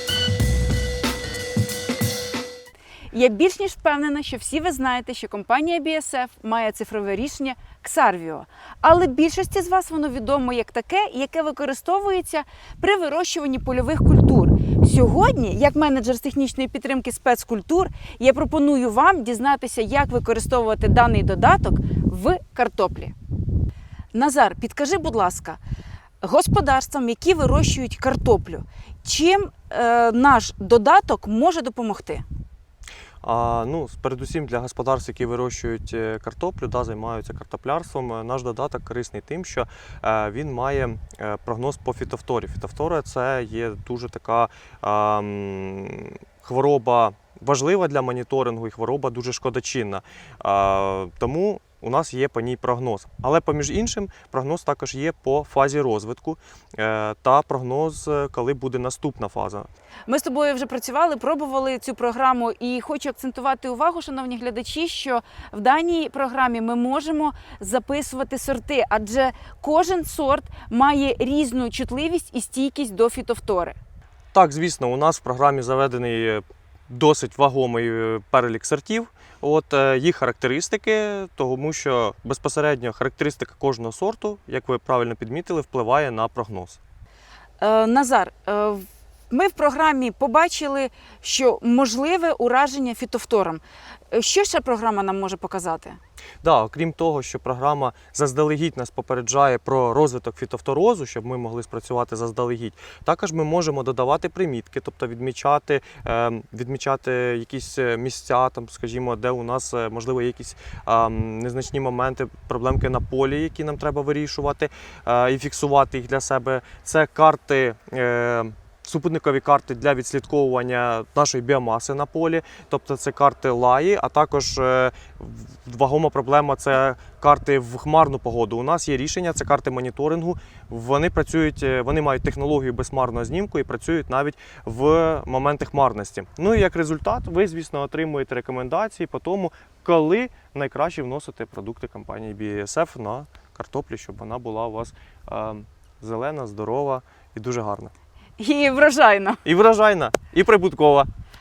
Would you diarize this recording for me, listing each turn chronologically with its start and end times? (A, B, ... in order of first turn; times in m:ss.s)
0:03.1-0:23.1 A
0:24.1-0:25.6 A
0:26.2-0:32.2 A
0:33.2-0:59.7 B
1:00.1-1:13.8 A
1:14.3-1:26.8 B
1:27.6-1:36.0 A
1:36.4-2:27.9 B
2:28.4-2:29.4 A
2:29.4-2:31.1 B